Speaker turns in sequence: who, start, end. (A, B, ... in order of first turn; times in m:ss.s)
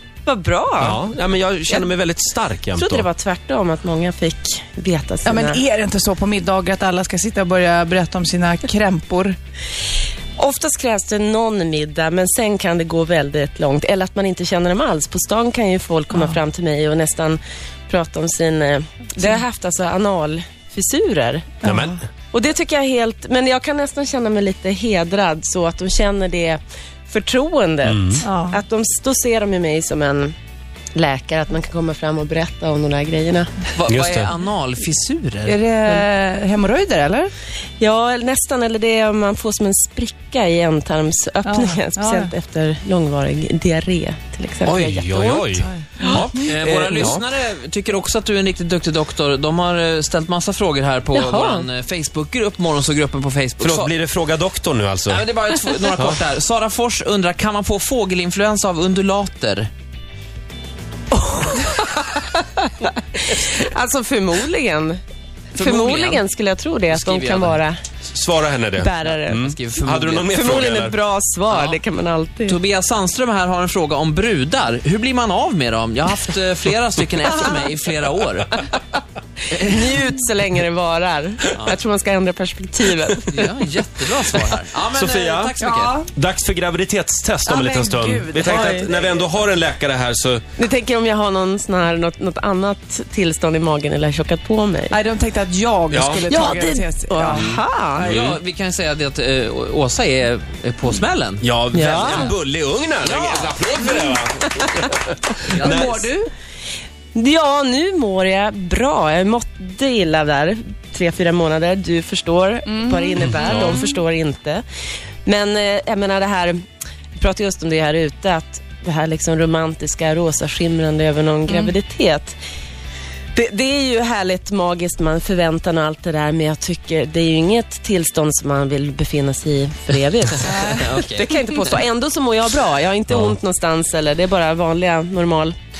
0:00.2-0:01.0 A
0:00.8-0:03.1 B
0:02.7-0:05.6 A
0:05.2-0:09.4 C
0:10.4-0:21.6 A
0:16.1-0:16.4 C
0:21.6-0:22.0 C
0:21.6-0:22.0 B
0:22.3-0:30.4 A
0:27.9-0:28.2 B
0:28.2-0:28.6 C
0:31.0-0:33.6 A
0:33.8-0:35.6 D
0:33.9-0:34.3 B
0:35.5-0:37.3 C
0:37.8-0:46.3 A
0:41.4-0:42.3 C
0:44.6-0:47.2 B
0:46.2-0:53.9 D
0:51.1-0:51.7 A
0:53.6-0:55.2 B
0:55.1-0:59.7 D
1:01.1-1:05.0 A
1:05.6-1:06.2 D
1:05.6-1:07.8 A
1:06.9-1:07.6 D
1:08.1-1:11.0 B
1:08.8-1:09.4 A
1:09.1-1:10.4 D
1:10.3-1:12.6 A
1:11.5-1:11.8 D
1:12.5-1:18.6 D
1:19.5-1:19.9 D
1:19.5-1:23.5 A
1:23.3-1:26.0 D
1:24.9-1:25.6 B
1:25.6-1:26.1 C
1:26.1-1:30.4 B
1:27.5-1:28.8 C
1:28.4-1:28.9 A
1:30.6-1:35.0 A
1:34.9-1:37.4 C
1:35.9-1:36.4 B
1:36.3-1:38.2 A
1:37.3-1:38.4 B
1:38.0-1:41.5 D
1:41.4-1:46.1 B
1:41.7-1:42.3 A
1:42.0-1:42.3 D
1:45.5-1:46.1 D
1:45.6-1:46.3 C
1:47.2-1:54.6 A
1:52.7-1:53.9 C
1:53.2-1:53.8 B
1:55.2-1:56.6 A
1:57.2-2:02.4 A
2:03.4-2:15.6 A
2:10.5-2:10.8 C
2:10.6-2:11.3 D
2:13.1-2:13.4 B